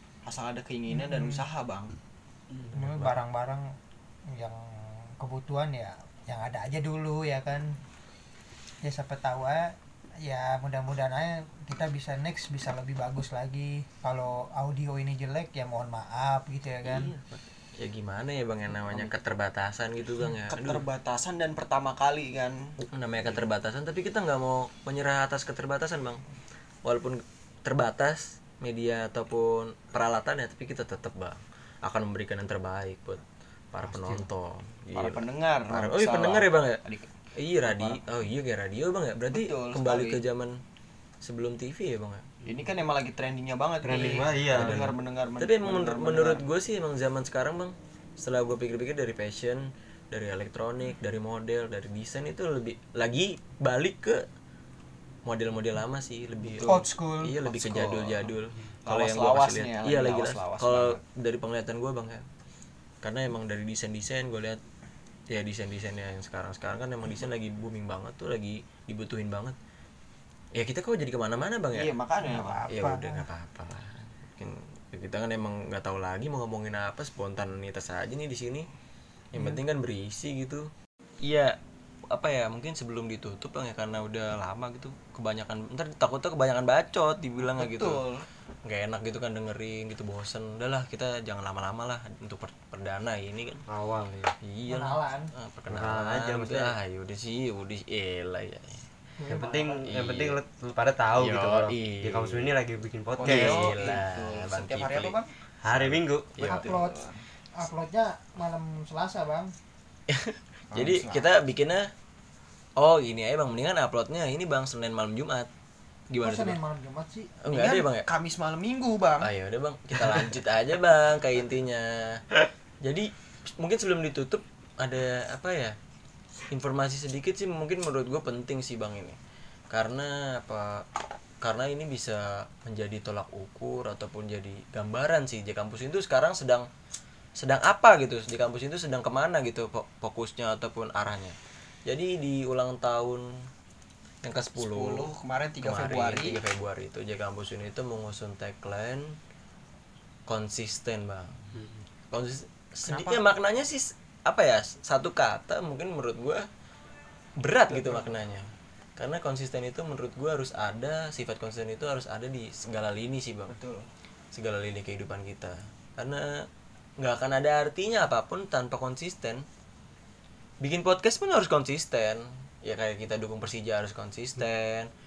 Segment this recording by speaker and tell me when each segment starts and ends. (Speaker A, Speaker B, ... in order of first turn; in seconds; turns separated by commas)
Speaker A: 0.2-1.9, Speaker B: 0.9-1.4, Speaker C: 2.7-3.2, Speaker B: 2.7-3.7, Speaker B: 4.3-7.8, Speaker B: 8.8-17.1, Speaker C: 16.9-20.9, Speaker A: 20.5-22.8, Speaker C: 22.8-26.2, Speaker C: 26.9-36.8, Speaker D: 33.9-34.3, Speaker A: 34.9-37.1, Speaker C: 37.4-40.6, Speaker A: 37.7-38.0, Speaker A: 39.3-40.2, Speaker C: 41.2-42.2, Speaker A: 42.5-46.4, Speaker D: 43.8-45.0, Speaker C: 44.5-54.2, Speaker C: 55.2-62.2, Speaker A: 56.4-56.9, Speaker B: 56.6-57.4, Speaker A: 57.4-58.3, Speaker A: 58.9-61.0, Speaker C: 63.0-64.6, Speaker C: 65.3-69.6, Speaker C: 70.5-71.9, Speaker A: 71.7-72.7, Speaker B: 72.2-73.3, Speaker C: 72.7-78.7, Speaker C: 79.3-80.7, Speaker C: 81.2-81.6, Speaker C: 82.1-88.0, Speaker A: 87.5-88.3, Speaker C: 88.7-93.6, Speaker D: 93.7-94.4, Speaker C: 94.4-98.9, Speaker B: 94.7-95.3, Speaker D: 95.7-96.8, Speaker B: 99.2-99.8, Speaker D: 99.3-103.8, Speaker C: 99.8-100.4, Speaker C: 101.1-102.5, Speaker A: 103.2-105.3, Speaker C: 103.2-106.8, Speaker D: 105.6-106.4, Speaker A: 106.4-107.2, Speaker B: 106.4-107.0, Speaker B: 107.6-109.5, Speaker C: 110.1-111.9, Speaker A: 110.7-111.3, Speaker C: 112.8-115.5, Speaker C: 116.1-116.6, Speaker B: 116.2-117.3, Speaker C: 117.4-118.1, Speaker A: 117.5-119.3, Speaker C: 119.2-122.2, Speaker C: 122.8-125.8, Speaker C: 126.5-129.2, Speaker C: 129.7-130.9, Speaker C: 131.4-136.7, Speaker C: 137.4-143.3, Speaker C: 144.2-145.1, Speaker A: 144.6-146.4, Speaker C: 145.6-149.2, Speaker C: 150.3-156.5, Speaker C: 157.4-163.6, Speaker A: 157.7-158.1, Speaker A: 163.5-163.9, Speaker C: 164.3-166.5, Speaker C: 167.0-169.5, Speaker C: 170.6-174.9